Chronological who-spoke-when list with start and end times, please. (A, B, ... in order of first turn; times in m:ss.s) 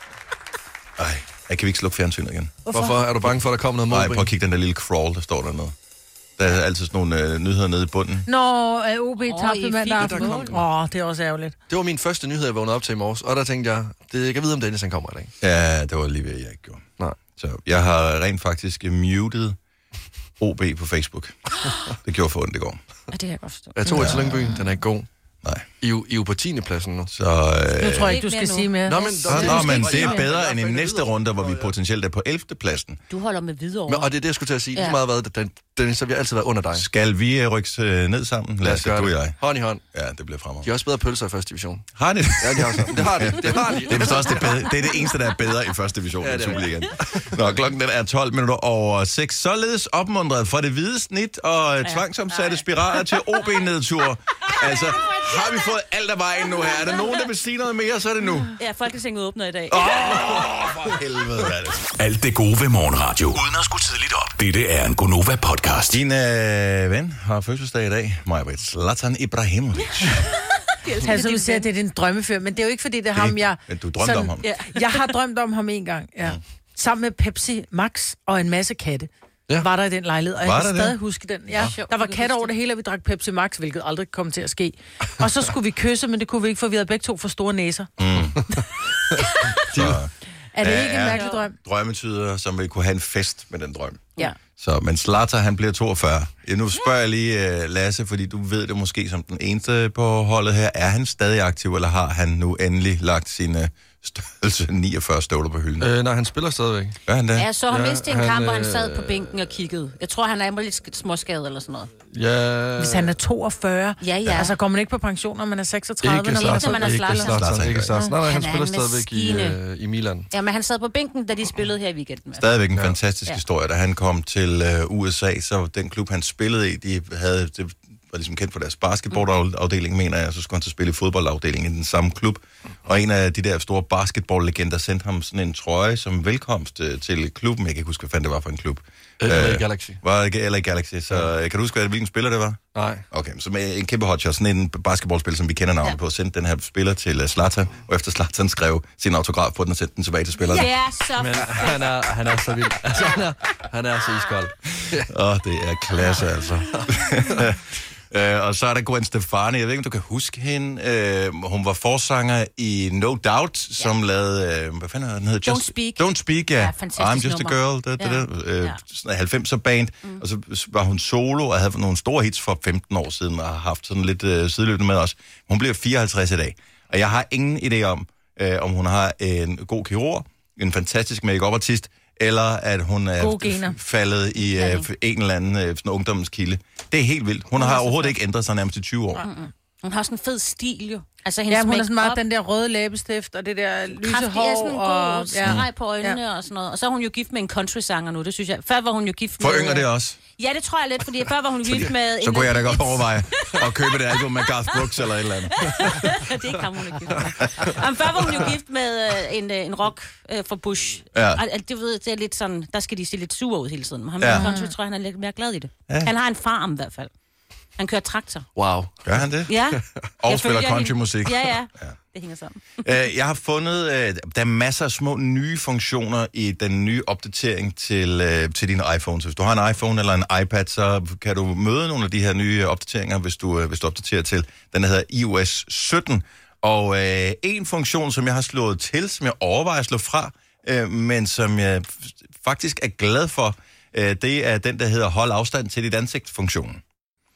0:01.0-0:02.6 A
0:02.7-0:03.0 B
0:02.7-0:04.3 C
0:03.9-0:05.8 A
0:06.4-0:08.3 A
0:08.3-0:11.6 B
0:09.2-0:10.5 D
0:10.0-0:10.6 C
0:11.7-0:15.3 C
0:15.4-0:19.6 A
0:20.4-0:21.4 A
0:22.0-0:22.8 A
0:23.1-0:24.2 D
0:23.8-0:25.1 C
0:23.9-0:24.5 A
0:25.8-0:27.1 C
0:27.1-0:28.2 A
0:27.8-0:30.3 B
0:27.9-0:30.0 D
0:28.9-0:31.7 C
0:29.3-0:33.0 A
0:33.1-0:34.1 D
0:33.9-0:36.8 C
0:34.7-0:35.0 D
0:36.7-0:39.4 A
0:38.6-0:39.8 C
0:39.9-0:40.7 A
0:40.6-0:41.9 C
0:42.0-0:58.6 A
0:42.4-0:44.7 C
0:46.2-0:47.3 C
0:51.8-0:53.6 D
0:54.5-0:55.7 D
0:56.6-0:57.2 D
0:58.6-1:00.3 D
0:59.7-1:01.9 A
1:01.9-1:06.0 E
1:05.9-1:10.3 A
1:10.0-1:11.7 D
1:11.0-1:27.9 B
1:13.1-1:14.5 A
1:14.4-1:15.1 D
1:20.4-1:21.0 A
1:21.5-1:22.5 D
1:28.0-1:28.4 A
1:29.2-1:29.6 D
1:29.7-1:30.0 C
1:29.7-1:45.9 A
1:30.5-1:31.6 B
1:31.1-1:31.4 D
1:45.8-1:47.0 C
1:47.1-1:47.5 A
1:47.4-1:51.9 D
1:47.7-1:49.5 C
1:52.1-1:53.2 C
1:52.8-1:57.3 B
1:54.0-1:54.5 D
1:56.0-2:00.3 C
1:56.3-1:57.5 D
1:57.2-1:58.0 A
1:58.2-1:59.6 D
2:00.3-2:02.6 D
2:02.4-2:22.6 A
2:19.2-2:20.0 C
2:22.7-2:23.0 C
2:23.1-2:30.7 A
2:30.5-2:32.0 D
2:31.2-2:35.1 C
2:35.1-3:09.3 A
2:45.4-2:48.8 D
3:03.2-3:03.8 B
3:04.5-3:04.9 D
3:07.6-3:08.1 D
3:09.2-3:12.2 D
3:11.5-3:16.2 B
3:14.0-3:24.9 D
3:19.4-3:20.2 A
3:21.6-3:25.7 A
3:25.6-3:37.1 D
3:31.1-3:31.4 A
3:34.2-3:34.5 A
3:34.3-3:34.7 B
3:37.8-3:38.5 D
3:38.6-3:39.2 C
3:39.0-3:39.5 A
3:39.5-3:42.8 D
3:40.2-3:42.0 A
3:42.8-4:06.8 A